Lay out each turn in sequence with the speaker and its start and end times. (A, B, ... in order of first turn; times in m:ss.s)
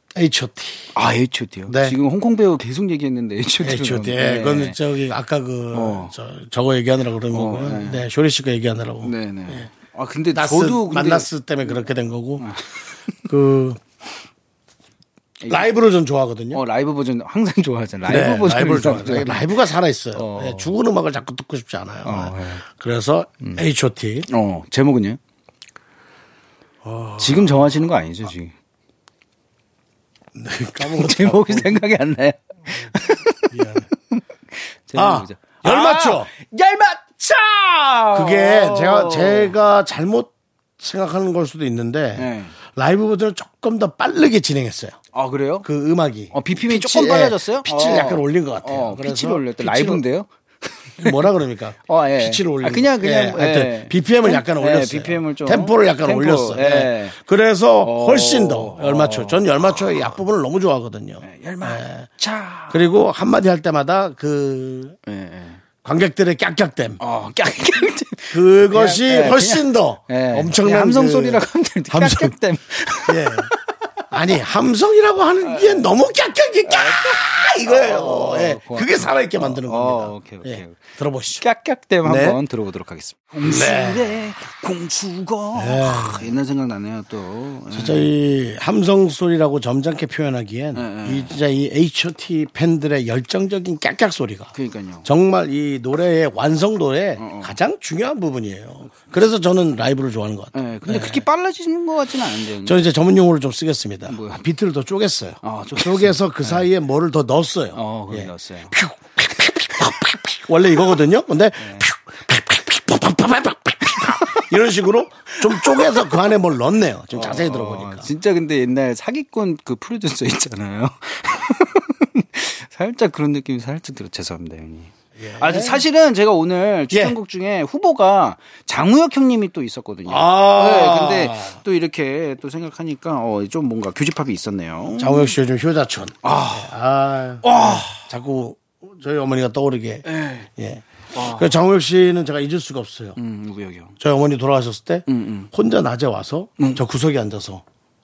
0:00.1-0:00.9 A
0:00.9-0:04.8 B
0:01.6-0:02.0 A
0:03.6-0:09.7 A
0:05.7-0:06.1 B
0:07.3-0:08.0 B
0:09.0-0:11.8 B
0:10.3-0:12.5 A
0:12.4-0:12.7 B
0:13.2-0:13.8 A
0:15.4-0:15.7 B
0:15.5-0:16.6 A
0:16.5-0:19.5 B
0:18.0-0:24.3 A
0:20.1-0:20.7 B
0:22.0-0:22.6 B
0:24.3-0:25.2 B
0:26.8-0:27.7 A
0:27.2-0:28.5 B
0:30.3-0:31.8 A
0:30.8-0:33.5 B
0:33.5-0:33.9 A
0:34.1-0:39.5 B
0:34.9-0:36.3 A
0:38.1-0:45.0 A
0:42.2-0:42.5 B
0:45.1-0:45.7 B
0:45.6-0:50.0 A
0:46.3-0:51.2 B
0:51.0-1:02.1 A
0:51.9-0:57.1 B
0:57.8-1:00.1 B
1:01.2-1:02.9 B
1:02.7-1:05.0 A
1:05.0-1:05.6 B
1:05.8-1:07.0 A
1:07.0-1:13.4 B
1:08.3-1:12.3 A
1:13.0-1:13.5 A
1:14.1-1:21.4 A
1:15.4-1:15.9 B
1:16.7-1:20.8 B
1:21.4-1:28.1 B
1:22.0-1:22.4 A
1:23.4-1:24.1 A
1:25.5-1:26.3 A
1:27.7-1:34.5 A
1:30.7-1:31.3 B
1:34.5-1:35.1 B
1:35.0-1:41.2 A
1:37.2-1:37.5 B
1:40.5-1:42.8 B
1:42.6-1:58.1 A
1:44.1-1:44.4 B
1:45.4-1:46.6 B
1:47.7-1:48.7 B
1:51.6-1:51.9 B
1:54.0-1:54.4 B
1:55.6-1:56.0 B
1:57.1-2:15.3 B
2:05.2-2:05.8 A
2:06.9-2:07.2 A
2:10.0-2:11.6 A
2:15.0-2:23.2 A
2:16.2-2:16.7 B
2:17.4-2:18.0 B
2:20.0-2:20.5 B
2:21.1-2:21.5 B
2:23.2-2:24.0 B
2:24.0-2:27.6 A
2:25.1-2:25.5 B